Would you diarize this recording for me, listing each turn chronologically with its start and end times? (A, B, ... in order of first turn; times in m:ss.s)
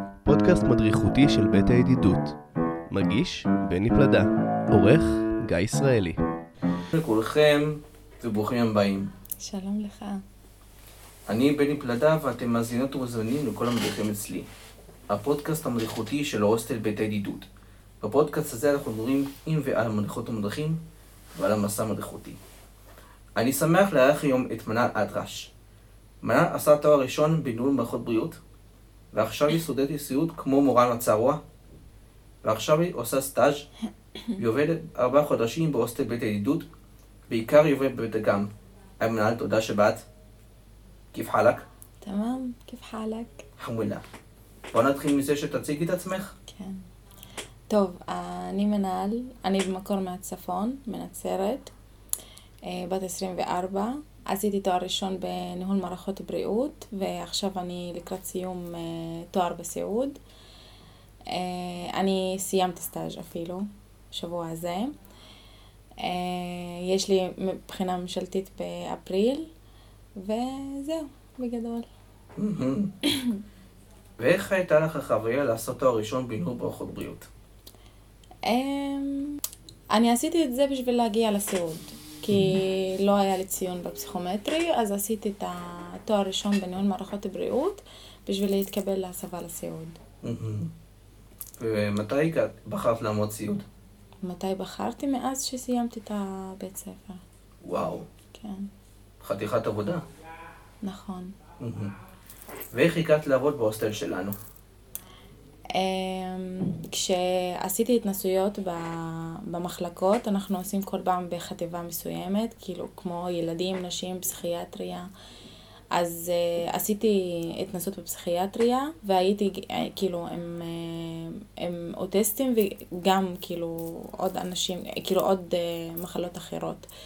0:00.2-0:02.4 A
0:02.9-0:06.2 A
0:06.9-0:09.1 B
0:09.4-0:10.2 C
0:11.3-0:14.5 B
0:15.1-0:17.5 B
0:18.0-0:20.8 B
0:21.3-0:22.4 B
0:23.4-0:25.5 B
0:26.2-0:28.4 B
0:29.1-0:31.4 B
0:32.4-0:33.7 B
0:34.4-0:36.7 B
0:37.3-0:40.0 B
0:41.1-0:41.6 B
0:42.0-0:43.4 C
0:43.6-0:44.0 B
0:44.7-0:46.3 B
0:46.5-0:46.8 C
0:47.7-0:51.7 C
0:52.7-1:00.2 C
1:01.3-1:04.9 C
1:06.0-1:09.5 C
1:10.2-1:11.9 C
1:12.4-1:12.9 B
1:13.1-1:13.4 C
1:14.2-1:17.3 B
1:18.5-1:19.4 C
1:19.9-1:30.0 C
1:22.3-1:22.6 B
1:30.2-1:30.7 B
1:31.6-1:33.6 B
1:34.2-1:37.2 C
1:37.6-1:38.1 B
1:38.3-1:38.7 C
1:39.2-1:40.0 B
1:40.8-1:41.3 C
1:41.6-1:41.9 B
1:42.7-1:44.4 B
1:45.7-1:55.1 C
1:55.9-2:06.9 C